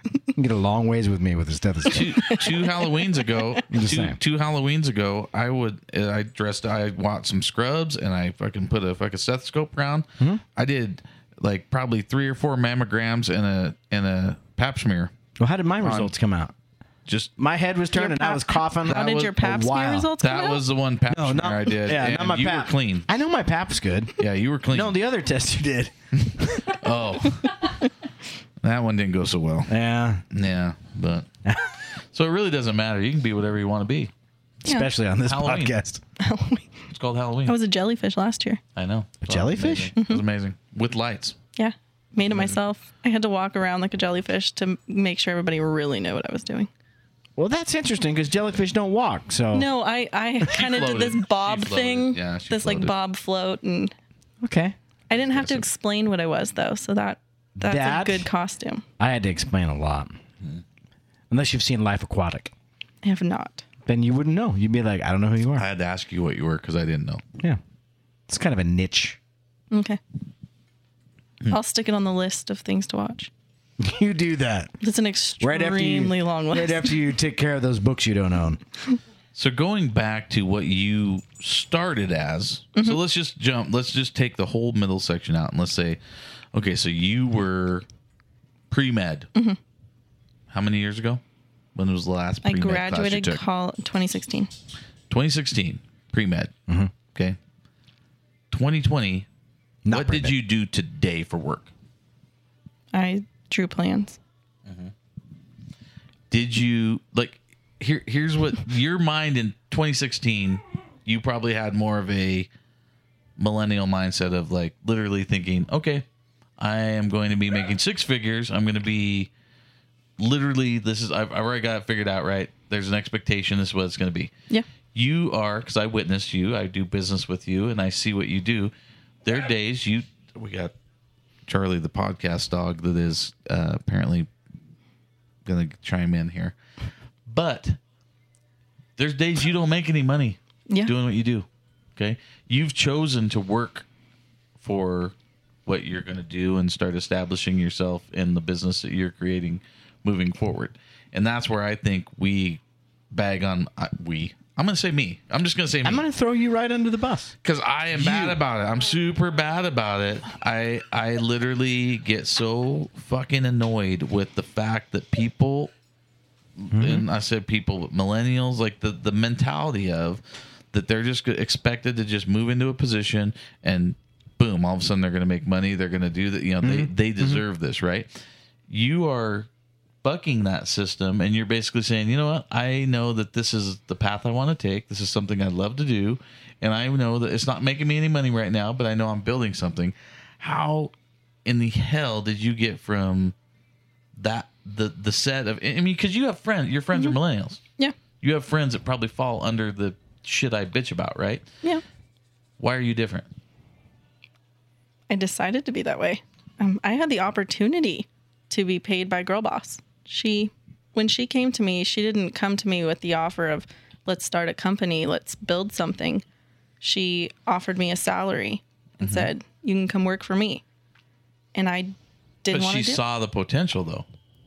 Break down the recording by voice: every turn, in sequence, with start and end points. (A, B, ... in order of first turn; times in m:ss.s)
0:00.4-0:02.3 A
0:01.9-0:15.1 B
0:02.2-0:03.5 C
0:03.7-0:04.2 A
0:15.4-0:16.5 A
0:15.8-0:16.1 B
0:17.1-0:17.3 B
0:17.4-0:20.1 A
0:17.9-0:20.6 C
0:18.9-0:19.3 B
0:20.2-0:23.1 B
0:21.1-0:24.2 A
0:24.2-0:25.0 B
0:24.7-0:26.8 A
0:26.7-0:27.7 B
0:28.6-0:29.8 B
0:29.7-0:30.2 A
0:30.3-0:31.3 B
0:31.4-0:31.7 A
0:32.1-0:34.1 B
0:34.6-0:36.0 A
0:35.2-0:35.8 B
0:36.2-0:36.7 C
0:36.9-0:37.6 B
0:37.5-0:38.6 C
0:38.8-0:41.4 B
0:39.2-0:39.9 A
0:41.6-0:46.7 C
0:47.4-0:49.7 A
0:49.5-0:53.9 C
0:50.5-0:52.9 B
0:54.4-0:54.8 A
0:55.1-0:58.8 C
0:55.2-0:55.6 B
0:57.6-0:58.3 A
0:59.0-1:00.2 A
1:01.3-1:02.5 A
1:03.0-1:03.6 C
1:03.9-1:05.7 A
1:05.6-1:07.2 B
1:08.3-1:09.2 A
1:09.7-1:10.0 C
1:11.5-1:13.3 C
1:13.8-1:14.7 A
1:14.8-1:17.0 C
1:15.4-1:18.6 A
1:19.4-1:26.0 B
1:26.5-1:27.8 B
1:28.7-1:29.3 B
1:30.5-1:31.2 B
1:31.8-1:33.4 B
1:32.4-1:34.5 C
1:35.1-1:36.5 B
1:36.7-1:36.9 A
1:38.5-1:39.3 B
1:39.8-1:40.3 A
1:39.9-1:41.7 B
1:42.9-1:44.2 C
1:44.7-1:44.9 B
1:46.3-1:52.5 B
1:53.4-1:56.0 B
1:56.6-1:59.3 B
2:00.2-2:04.3 B
2:05.0-2:08.7 B
2:09.2-2:10.7 B
2:11.5-2:14.3 B
2:15.4-2:16.6 B
2:17.3-2:17.8 B
2:19.0-2:23.9 B
2:24.6-2:25.1 B
2:25.7-2:32.6 B
2:33.1-2:36.1 B
2:35.8-2:37.3 A
2:37.4-2:45.7 B
2:38.0-2:38.4 A
2:46.6-2:50.2 B
2:46.7-2:47.1 A
2:50.7-2:58.1 B
2:56.6-2:57.4 A
2:58.7-2:59.5 B
3:00.0-3:10.9 B
3:11.4-3:13.3 B
3:14.2-3:17.6 B
3:18.2-3:21.4 B
3:22.6-3:23.3 B
3:25.1-3:36.2 C
3:36.8-3:40.6 C
3:39.0-3:39.3 B
3:41.6-3:43.0 C
3:42.5-3:44.1 B